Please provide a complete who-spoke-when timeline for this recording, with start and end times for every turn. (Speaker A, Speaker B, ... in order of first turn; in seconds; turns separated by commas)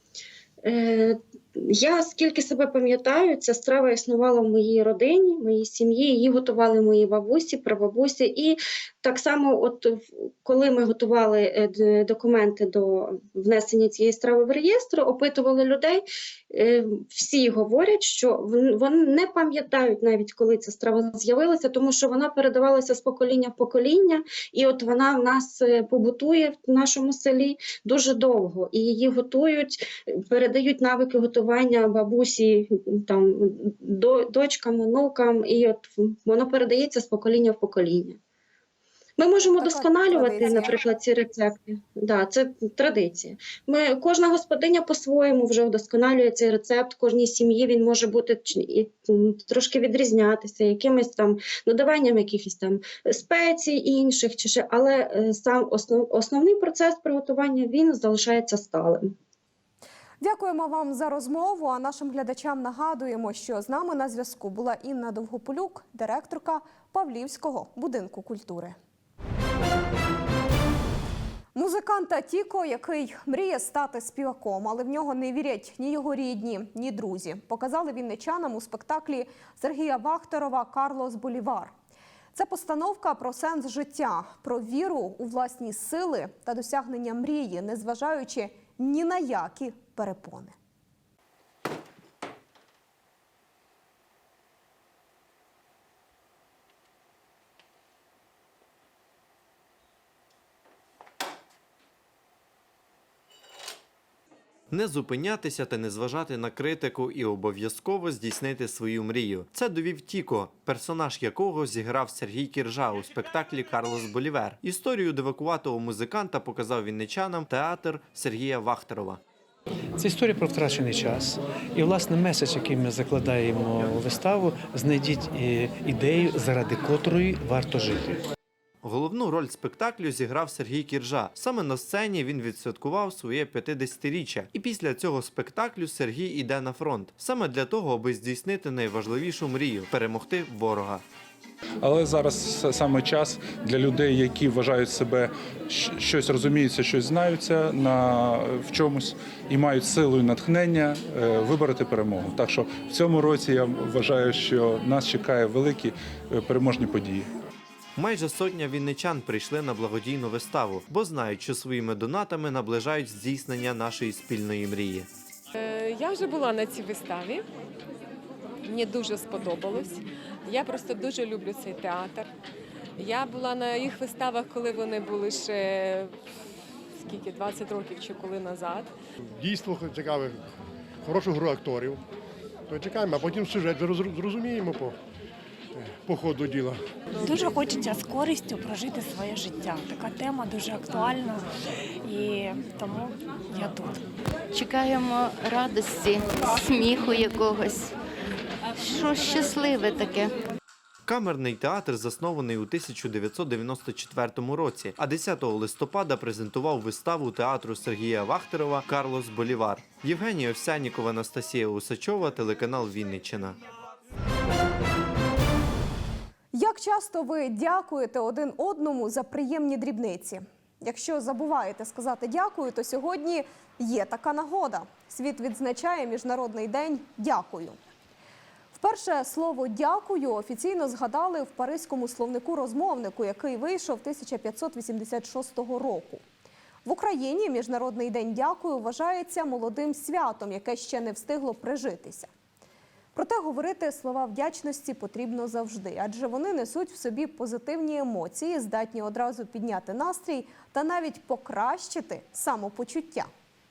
Speaker A: 0.6-38.2, Speaker A: 39.2-59.1, Speaker B: 39.6-40.7, Speaker B: 60.2-68.8, Speaker B: 71.5-81.7, Speaker B: 82.3-90.5, Speaker C: 104.7-119.2, Speaker D: 120.0-128.2, Speaker C: 128.8-141.0, Speaker E: 141.8-157.3, Speaker C: 158.0-165.1, Speaker F: 165.5-167.4, Speaker F: 168.6-172.2, Speaker F: 173.0-176.1, Speaker F: 177.0-178.9, Speaker G: 179.3-180.4, Speaker G: 181.0-182.0, Speaker G: 182.7-185.0, Speaker G: 185.7-186.8, Speaker H: 187.3-191.4, Speaker H: 192.0-194.0, Speaker I: 194.5-197.9, Speaker I: 198.8-200.3, Speaker C: 201.1-213.6, Speaker B: 216.5-227.8, Speaker B: 228.7-236.2, Speaker B: 236.8-242.3, Speaker B: 243.1-253.3